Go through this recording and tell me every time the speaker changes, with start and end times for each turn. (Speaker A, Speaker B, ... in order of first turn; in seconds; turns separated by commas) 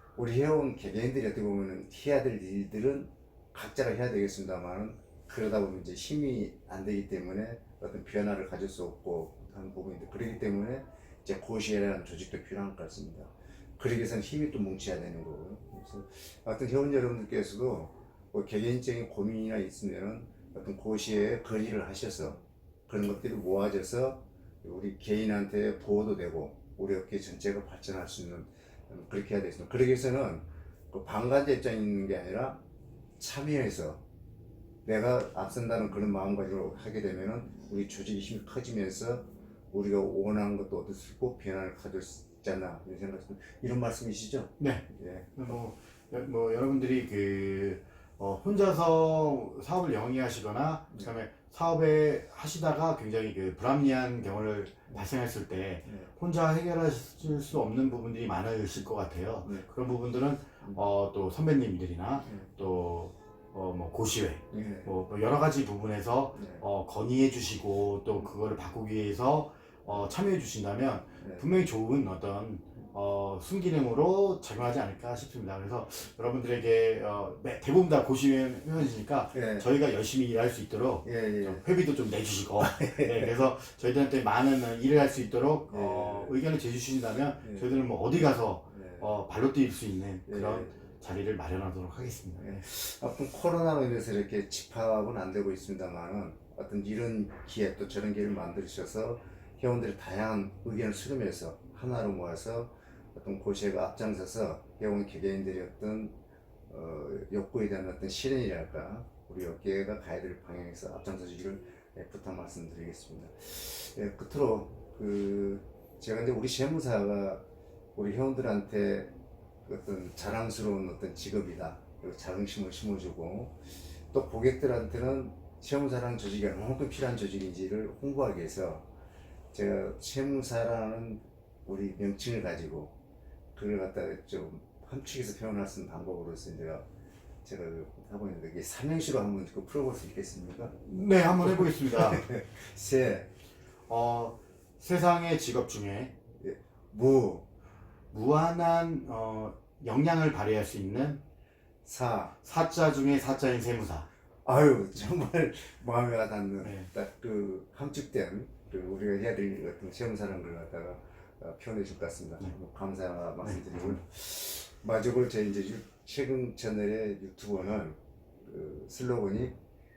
Speaker A: 0.2-32.6, Speaker A: 33.2-34.0, Speaker A: 34.9-45.5, Speaker B: 44.6-44.9, Speaker B: 45.4-92.6, Speaker A: 55.9-56.1, Speaker A: 64.5-64.9, Speaker A: 66.3-66.7, Speaker A: 79.3-79.7, Speaker A: 81.0-81.7, Speaker A: 82.6-83.3, Speaker A: 85.7-86.4, Speaker A: 87.4-87.7, Speaker A: 88.7-89.1, Speaker A: 90.3-90.8, Speaker A: 92.4-106.2, Speaker A: 106.7-117.4, Speaker A: 118.0-119.1, Speaker A: 119.7-123.6, Speaker A: 124.1-128.9, Speaker A: 129.5-132.9, Speaker A: 133.6-136.8, Speaker A: 137.4-140.8, Speaker B: 140.8-142.2, Speaker A: 141.4-143.3, Speaker B: 143.9-146.2, Speaker A: 146.4-147.4, Speaker B: 148.1-151.2, Speaker A: 151.8-152.4, Speaker B: 152.4-154.1, Speaker A: 154.4-169.6, Speaker B: 156.6-156.9, Speaker B: 163.4-164.0